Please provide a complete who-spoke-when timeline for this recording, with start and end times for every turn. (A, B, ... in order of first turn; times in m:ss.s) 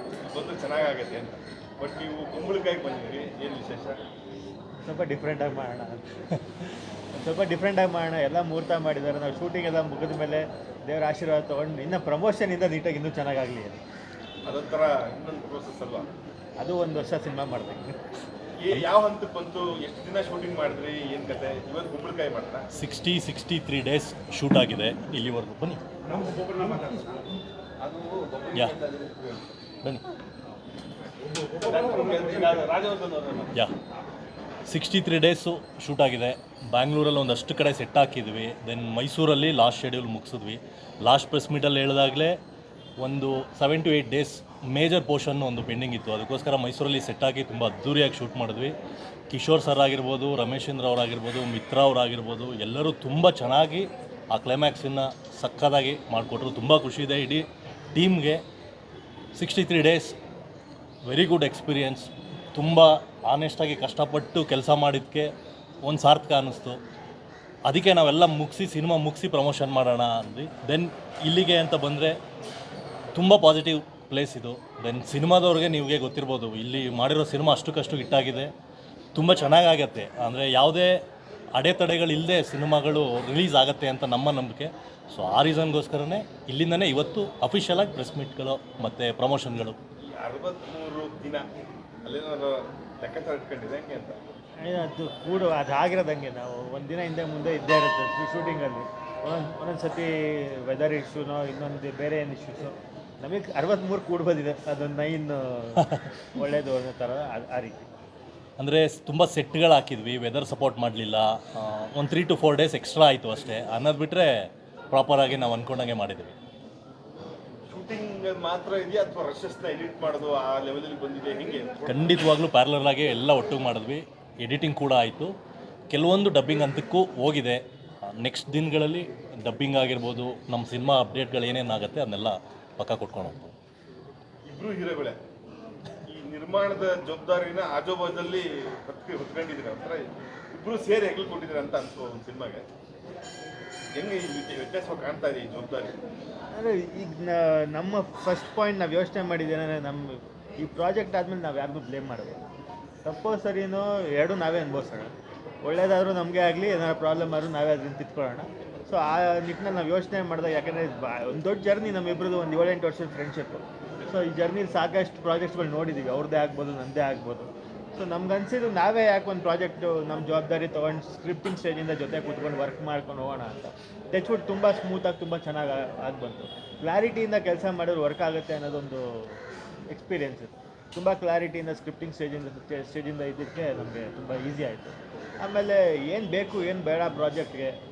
0:00.3-0:04.0 A
0:04.8-0:06.0 B
0:07.2-0:13.8 B
0:14.5-0:16.1 A
0:16.6-0:18.0 B
0:18.6-0:22.6 A
0:22.7-0:25.8 C
0:26.2-0:27.0 A
0:27.8-0:29.6 A
0:31.6-0:33.5 A
0:34.7-0:42.4 C
0:43.0-0:48.7 C
0:49.3-0:58.4 C
0:59.4-1:00.2 C
1:01.1-1:05.3 C
1:05.8-1:06.8 C
1:07.7-1:12.2 C
1:13.2-1:18.5 C
1:19.2-1:21.0 C
1:21.6-1:29.8 C
1:30.0-1:31.5 A
1:32.1-1:34.2 A
1:34.6-1:47.9 B
1:48.6-1:56.4 C
1:57.7-2:02.2 A
2:01.9-2:05.3 C
2:05.9-2:13.5 C
2:14.5-2:15.2 A
2:16.1-2:22.6 A
2:24.0-2:26.0 A
2:26.5-2:32.4 B
2:33.0-2:35.1 B
2:35.6-2:59.4 B
2:59.9-3:07.7 B